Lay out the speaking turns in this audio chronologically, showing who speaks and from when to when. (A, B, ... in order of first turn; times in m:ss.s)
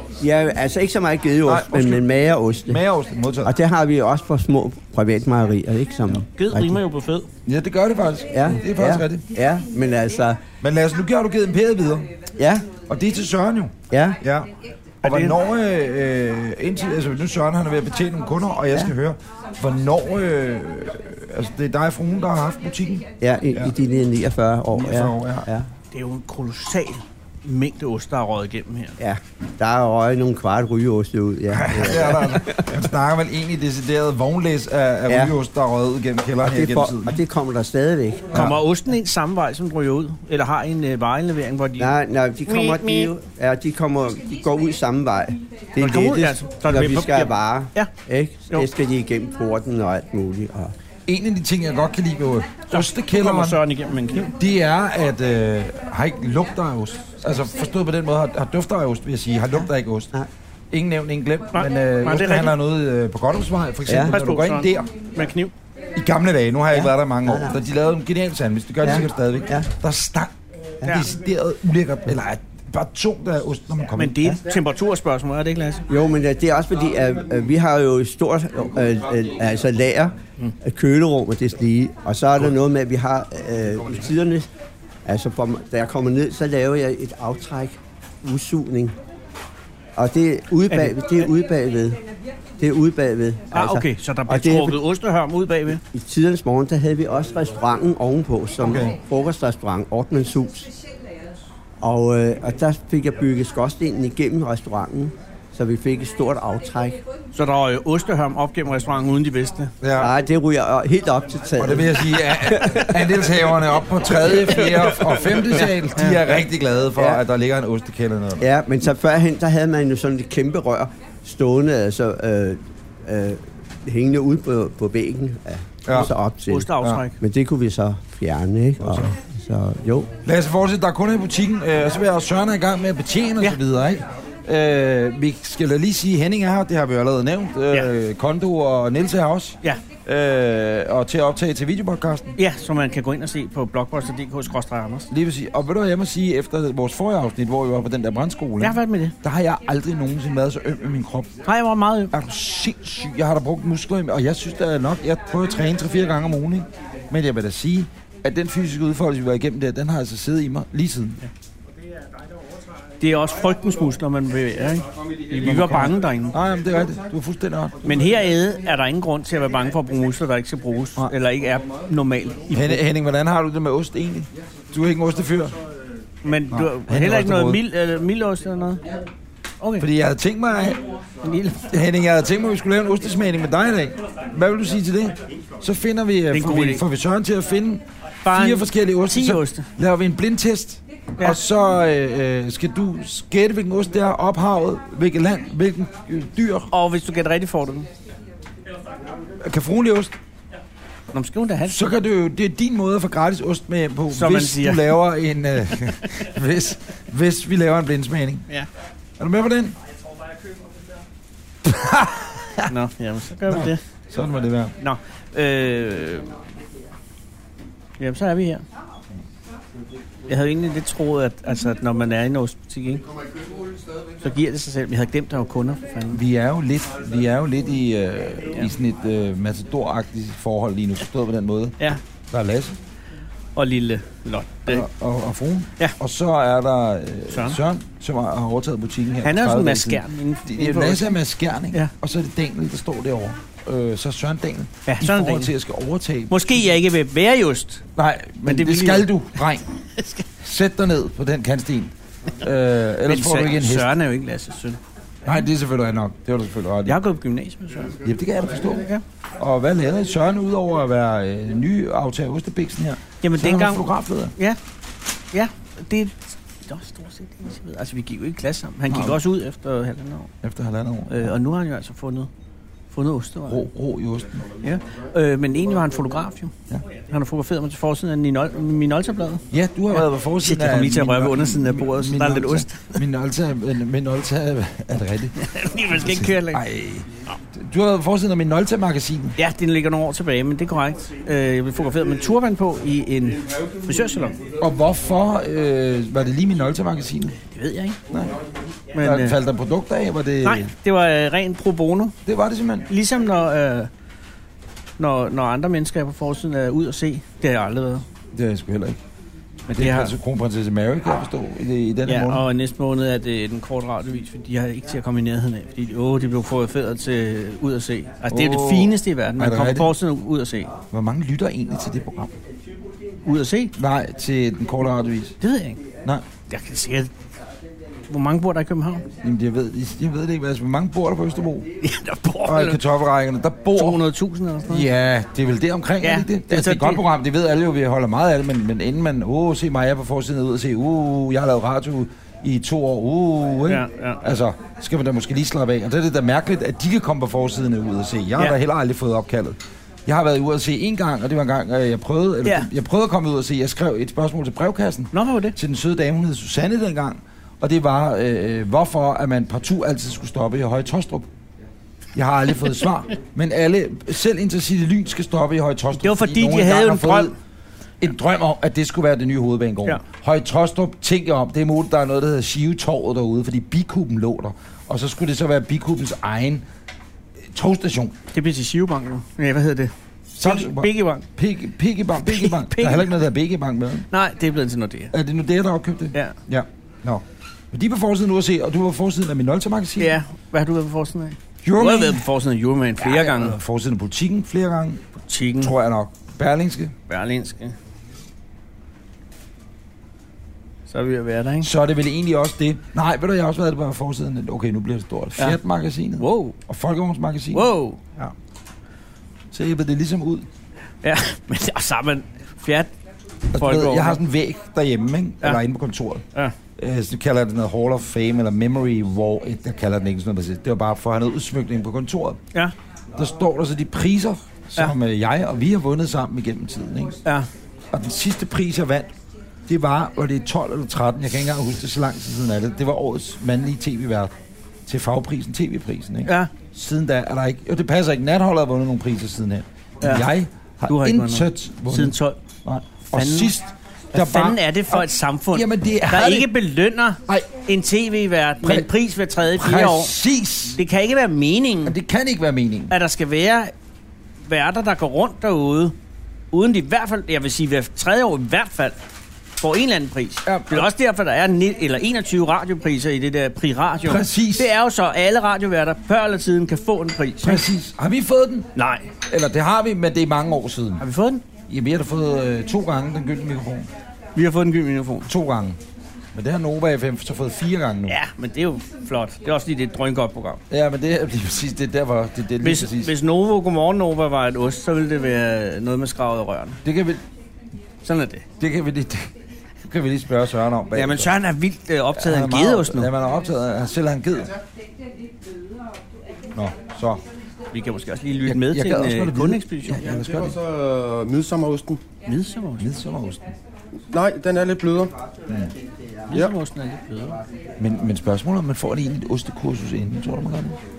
0:00.2-0:02.8 A
0:01.4-0:02.1 B
0:02.7-0:03.5 B
0:03.4-0:06.8 A
0:06.4-0:07.3 C
0:07.4-0:09.2 B
0:08.3-0:10.4 A
0:10.6-0:12.1 B
0:12.4-0:12.7 A
0:12.9-0:23.8 B
0:13.9-0:14.2 A
0:15.0-0:15.4 C
0:23.2-0:25.7 A
0:24.7-0:25.5 B
0:25.9-0:29.0 C
0:29.0-0:32.8 A
0:31.5-0:37.2 B
0:35.1-0:35.4 A
0:36.4-0:38.5 A
0:38.3-0:41.9 C
0:38.3-0:38.6 B
0:41.8-0:50.7 A
0:42.5-0:43.1 C
0:45.8-0:47.9 C
0:51.1-0:53.6 B
0:52.7-0:54.3 C
0:54.2-1:00.1 B
1:00.7-1:04.9 B
1:01.5-1:02.5 C
1:03.9-1:04.2 A
1:03.9-1:05.5 C
1:06.0-1:10.3 B
1:06.7-1:07.6 A
1:08.8-1:09.7 A
1:10.8-1:14.3 B
1:14.0-1:15.9 C
1:15.9-1:24.5 A
1:25.0-1:29.0 A
1:30.0-1:32.0 A
1:30.7-1:31.0 C
1:32.6-1:34.8 A
1:33.5-1:35.8 C
1:35.8-1:40.7 A
1:38.6-1:39.0 B
1:41.8-1:47.0 A
1:47.3-1:49.7 C
1:49.8-1:50.1 B
1:50.0-1:53.4 A
1:51.6-1:58.4 B
1:54.1-1:55.7 A
1:56.0-1:56.2 C
1:57.0-1:57.2 A
1:58.4-2:10.1 A
2:05.9-2:06.1 B
2:06.5-2:07.2 C
2:08.8-2:09.1 B
2:10.2-2:22.4 B
2:22.4-2:25.1 C
2:25.1-2:31.4 B
2:28.6-2:29.2 C
2:31.4-2:32.1 C
2:32.1-2:41.2 B
2:43.0-2:46.4 C
2:45.4-2:48.1 B
2:47.8-2:52.8 C
2:52.5-2:55.6 B
2:56.2-2:58.9 C
2:56.5-2:57.6 B
2:59.6-2:59.9 C
2:59.8-3:00.8 B
3:01.2-3:01.7 C
3:01.7-3:16.7 B
3:06.3-3:06.8 C
3:08.2-3:09.7 C
3:16.7-3:17.9 C
3:19.4-3:20.1 B
3:21.1-3:21.8 C
3:21.7-3:28.5 B
3:24.1-3:25.0 C
3:29.2-3:29.8 B
3:31.6-3:32.7 B
3:32.7-3:33.8 C
3:33.5-3:34.7 B
3:34.8-3:36.4 C
3:38.0-3:38.6 C
3:40.3-3:43.1 C
3:44.2-3:46.2 C
3:46.1-3:51.8 B
3:52.3-3:52.8 B
3:53.6-3:54.9 C
3:54.7-4:06.6 B
3:57.3-3:57.6 C
3:59.2-4:01.1 C
4:04.9-4:05.5 C
4:06.3-4:09.1 C
4:08.0-4:09.6 B
4:10.0-4:10.3 C
4:10.4-4:13.9 B
4:13.0-4:14.8 C
4:15.2-4:17.0 B
4:16.9-4:18.0 C
4:18.0-4:24.3 B
4:18.7-4:19.0 C
4:23.2-4:24.6 C
4:25.3-4:30.3 C
4:28.9-4:29.2 B
4:30.4-4:31.3 B
4:31.1-4:32.3 C
4:32.9-4:33.7 C
4:33.5-4:34.5 B
4:34.6-4:43.0 C
4:39.5-4:45.4 B
4:45.4-4:46.6 C
4:45.9-4:49.4 B
4:49.4-4:54.4 C
4:54.6-4:57.4 B
4:57.5-4:58.0 C
4:58.1-4:58.4 B
4:58.9-4:59.4 C
4:59.0-5:00.7 B
5:00.4-5:02.2 C
5:02.2-5:02.9 B
5:02.9-5:03.9 C
5:05.0-5:08.0 C
5:08.3-5:09.0 B
5:09.7-5:10.2 C
5:09.7-5:12.5 B
5:12.1-5:20.7 C
5:18.3-5:19.9 B
5:20.9-5:22.3 B
5:23.2-5:23.7 C
5:23.8-5:25.4 B
5:25.4-5:25.8 C
5:26.5-5:27.1 C
5:28.1-5:29.1 C
5:29.2-5:31.7 B
5:31.8-5:32.8 C
5:32.4-5:34.0 B
5:33.7-5:34.9 C
5:34.7-6:01.3 B
5:36.0-5:37.0 C
5:43.7-5:44.2 C
5:55.1-5:55.6 C
6:02.2-6:07.3 B
6:06.0-6:07.3 C
6:08.0-6:16.7 B
6:17.5-6:18.2 B
6:18.3-6:21.3 C
6:20.4-6:24.1 B
6:22.2-6:23.2 C
6:24.1-6:25.1 C
6:25.1-6:30.2 B
6:30.0-6:33.6 C
6:31.6-6:32.2 B
6:33.0-6:35.0 B
6:35.3-6:35.7 C
6:35.6-6:36.9 B
6:37.1-6:37.8 C
6:40.9-6:41.7 C
6:41.6-6:47.7 B
6:46.2-6:46.6 C
6:47.5-6:48.3 C
6:49.5-6:50.5 B
6:51.0-6:52.9 C
6:53.5-6:54.2 C
6:53.5-6:56.2 B
6:56.8-7:02.4 B
7:03.1-7:07.2 B
7:07.9-7:09.1 B
7:09.7-7:14.3 B
7:14.9-7:26.5 B
7:16.2-7:16.5 C
7:20.0-7:20.3 C
7:20.9-7:22.4 C
7:23.1-7:23.6 C
7:24.1-7:30.1 C
7:28.6-7:28.9 B
7:29.5-7:30.8 B
7:30.8-7:32.0 C
7:31.8-7:32.9 B
7:32.9-7:33.7 C
7:34.4-7:35.9 C
7:36.5-7:39.0 C
7:39.6-7:47.6 C
7:40.4-7:40.9 B
7:44.0-7:44.7 B
7:47.4-7:51.0 B
7:48.8-7:49.1 C
7:51.0-7:51.4 C
7:51.7-7:53.9 B
7:54.4-7:55.3 C
7:55.3-7:55.8 B
7:56.3-7:58.2 B
7:58.1-8:00.6 C
8:00.7-8:03.1 B
8:02.6-8:06.8 C
8:06.8-8:07.2 B
8:08.0-8:08.5 C
8:08.6-8:09.3 B
8:09.8-8:11.3 B
8:10.9-8:13.1 C
8:12.2-8:14.6 B
8:16.5-8:17.2 B
8:17.7-8:20.0 C
8:18.5-8:20.6 B
8:20.0-8:22.0 D
8:22.3-8:22.9 C
8:22.8-8:23.5 B
8:24.1-8:25.1 D
8:26.3-8:27.4 C
8:27.8-8:30.8 B